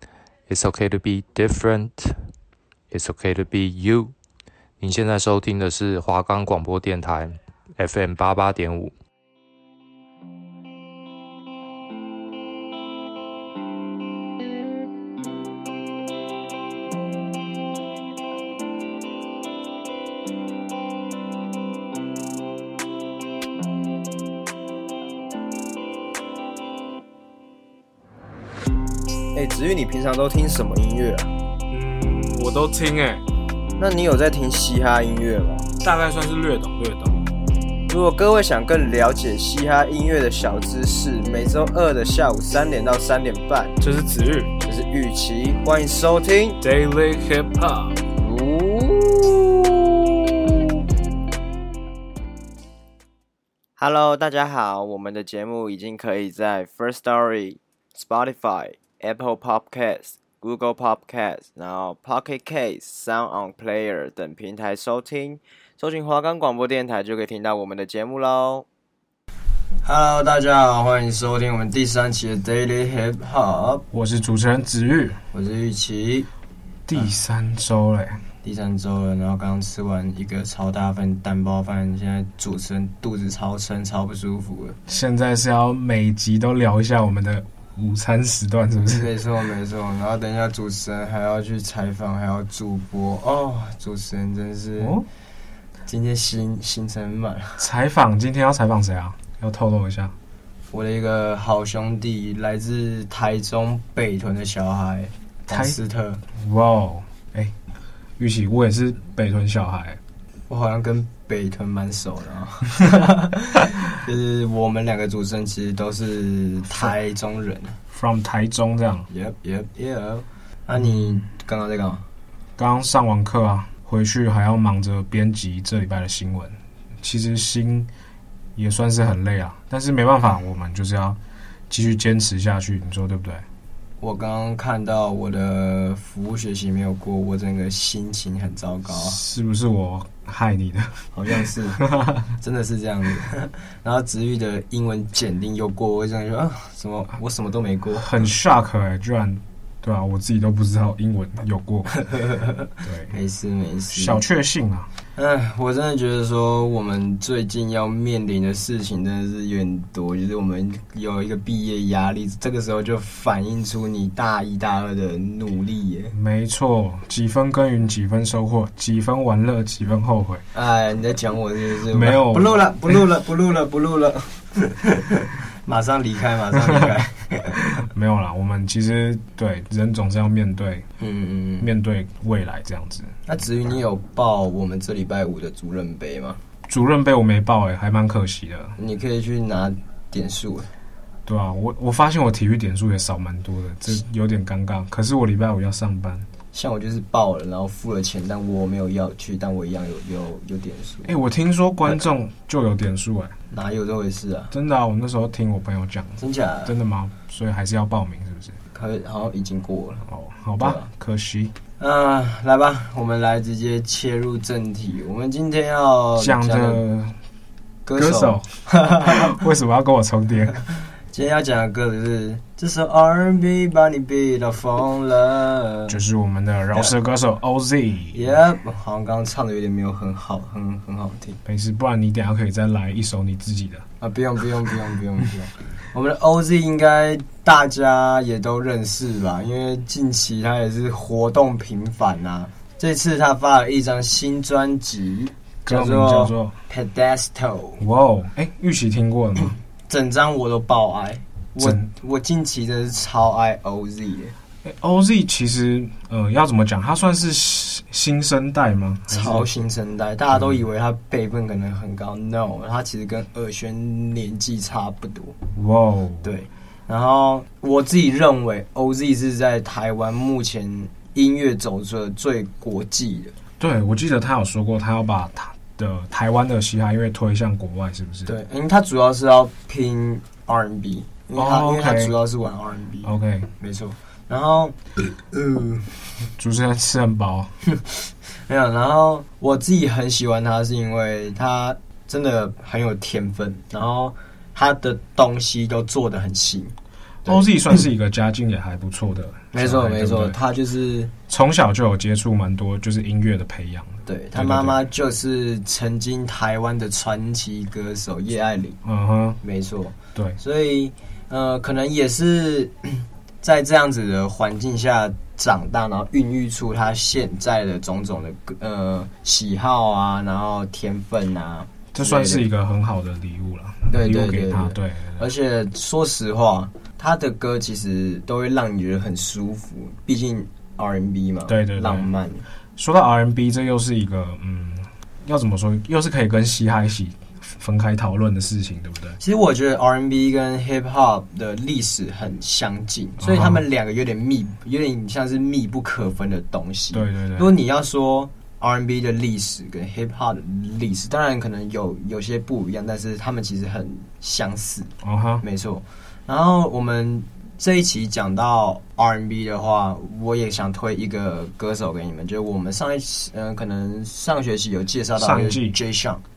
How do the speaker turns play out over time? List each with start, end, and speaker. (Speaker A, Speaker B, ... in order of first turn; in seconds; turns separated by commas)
Speaker A: 0.5-2.3, Speaker A: 2.9-4.2, Speaker A: 4.8-8.9, Speaker B: 29.3-31.3, Speaker C: 31.7-33.2, Speaker B: 33.8-35.7, Speaker C: 35.8-37.2, Speaker B: 37.9-43.8, Speaker C: 43.8-44.5, Speaker B: 44.6-46.6, Speaker C: 46.6-48.0, Speaker B: 48.2-49.5, Speaker B: 53.8-68.6, Speaker B: 69.8-73.8, Speaker C: 73.9-75.2, Speaker B: 75.3-76.3, Speaker C: 76.9-78.2, Speaker B: 78.4-84.8, Speaker C: 84.9-89.1, Speaker B: 88.9-95.0, Speaker C: 94.8-95.0, Speaker B: 95.9-97.6, Speaker C: 97.6-100.2, Speaker B: 100.7-106.2, Speaker C: 105.5-105.8, Speaker C: 106.3-107.5, Speaker C: 108.2-110.0, Speaker B: 110.5-117.8, Speaker C: 117.9-119.1, Speaker B: 119.1-122.0, Speaker C: 120.8-121.2, Speaker C: 122.6-127.9, Speaker C: 128.6-131.2, Speaker C: 131.7-133.4, Speaker B: 134.0-139.2, Speaker C: 138.9-141.1, Speaker B: 141.1-141.8, Speaker C: 141.8-142.3, Speaker B: 142.4-148.3, Speaker C: 148.0-151.9, Speaker B: 152.1-154.2, Speaker C: 152.8-153.1, Speaker C: 153.9-154.9, Speaker B: 155.2-166.1, Speaker C: 166.1-170.4, Speaker B: 170.5-177.6, Speaker C: 171.9-172.7, Speaker C: 177.8-180.9, Speaker B: 181.0-181.7, Speaker C: 181.6-183.1, Speaker B: 183.3-186.4, Speaker C: 186.7-188.8, Speaker B: 188.8-190.7, Speaker C: 191.3-196.3, Speaker B: 196.5-201.1, Speaker C: 201.1-203.4, Speaker B: 203.5-204.5, Speaker C: 204.5-208.6, Speaker B: 206.2-206.8, Speaker B: 208.7-210.1, Speaker C: 210.1-211.6, Speaker B: 210.6-210.9, Speaker B: 211.8-216.8, Speaker C: 216.2-217.2, Speaker B: 217.8-219.3, Speaker C: 218.0-220.6, Speaker B: 221.1-226.0, Speaker C: 225.9-228.2, Speaker B: 228.1-231.4, Speaker C: 231.4-233.9, Speaker B: 234.0-247.8, Speaker C: 245.7-246.6, Speaker C: 247.8-249.6, Speaker B: 249.9-254.3, Speaker C: 251.6-251.9, Speaker C: 254.6-259.5, Speaker B: 259.1-265.4, Speaker C: 260.3-260.6, Speaker C: 265.6-266.3, Speaker B: 266.2-273.3, Speaker C: 273.6-278.3, Speaker B: 278.3-284.8, Speaker C: 281.4-282.1, Speaker C: 283.0-283.5, Speaker B: 285.3-285.9, Speaker C: 286.4-287.5, Speaker B: 288.5-297.5, Speaker C: 297.3-300.4, Speaker B: 299.5-301.1, Speaker C: 301.3-304.8, Speaker B: 304.1-308.8, Speaker C: 308.8-309.4, Speaker B: 309.4-322.4, Speaker C: 321.9-325.3, Speaker B: 323.9-332.4, Speaker C: 331.5-332.1, Speaker C: 332.8-339.2, Speaker B: 339.2-366.2, Speaker C: 343.2-343.6, Speaker C: 346.9-347.5, Speaker C: 355.0-355.4, Speaker C: 365.2-365.8